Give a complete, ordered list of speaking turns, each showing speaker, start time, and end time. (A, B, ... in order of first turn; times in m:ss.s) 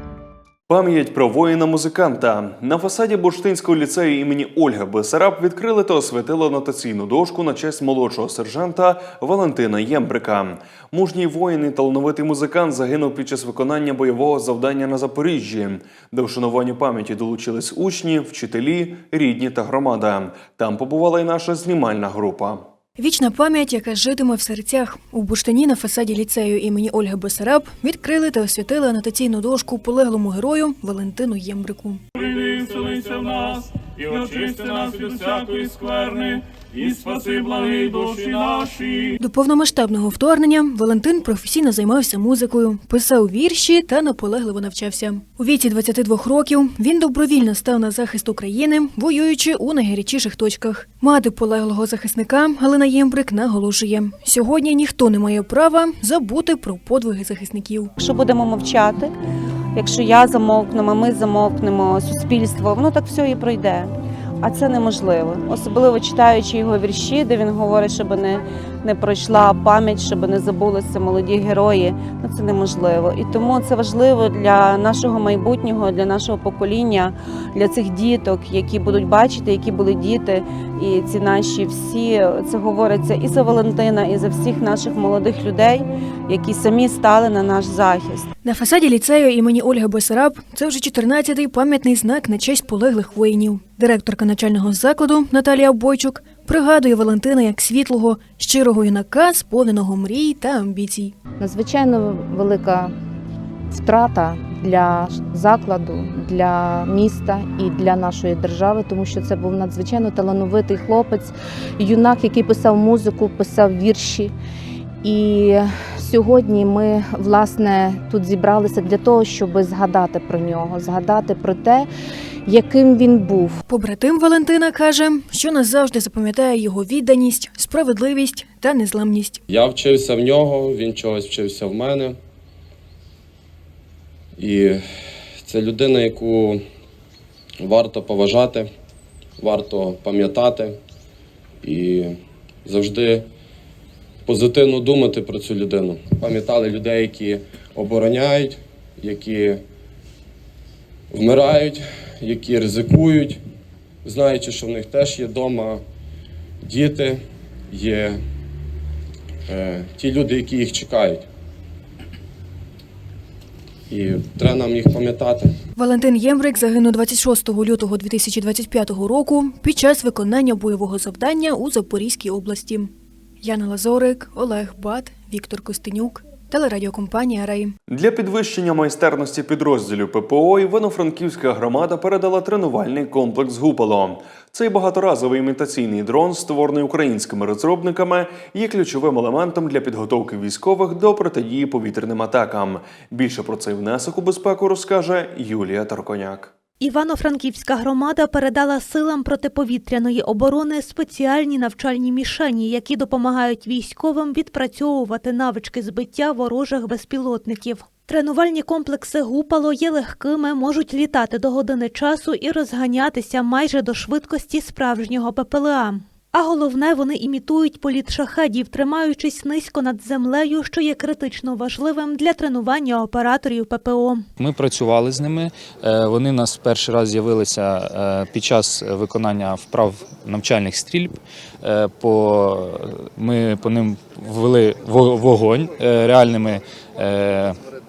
0:00.7-0:22.6 A
0:23.0-0:32.0 B
0:32.5-0:38.7 C
0:39.2-0:57.9 B
0:58.0-0:59.1 D
0:59.8-1:28.3 D
1:28.4-1:41.1 B
1:41.4-1:42.9 E
1:43.7-1:54.3 E
1:55.0-2:01.9 E
2:02.5-2:03.6 E
2:03.6-2:09.4 B
2:09.5-2:12.2 F
2:14.4-2:14.8 F
2:15.4-2:16.6 F
2:17.6-2:18.7 F
2:19.4-2:20.8 F
2:21.6-2:23.3 F
2:24.3-2:29.6 F
2:31.1-2:33.4 F
2:34.0-2:35.8 F
2:36.7-2:38.2 F
2:39.5-2:41.2 F
2:43.9-2:45.6 F
2:45.8-2:52.9 B
2:53.4-2:57.7 B
2:57.9-3:16.5 A
3:16.8-3:44.3 G
3:44.4-3:57.6 H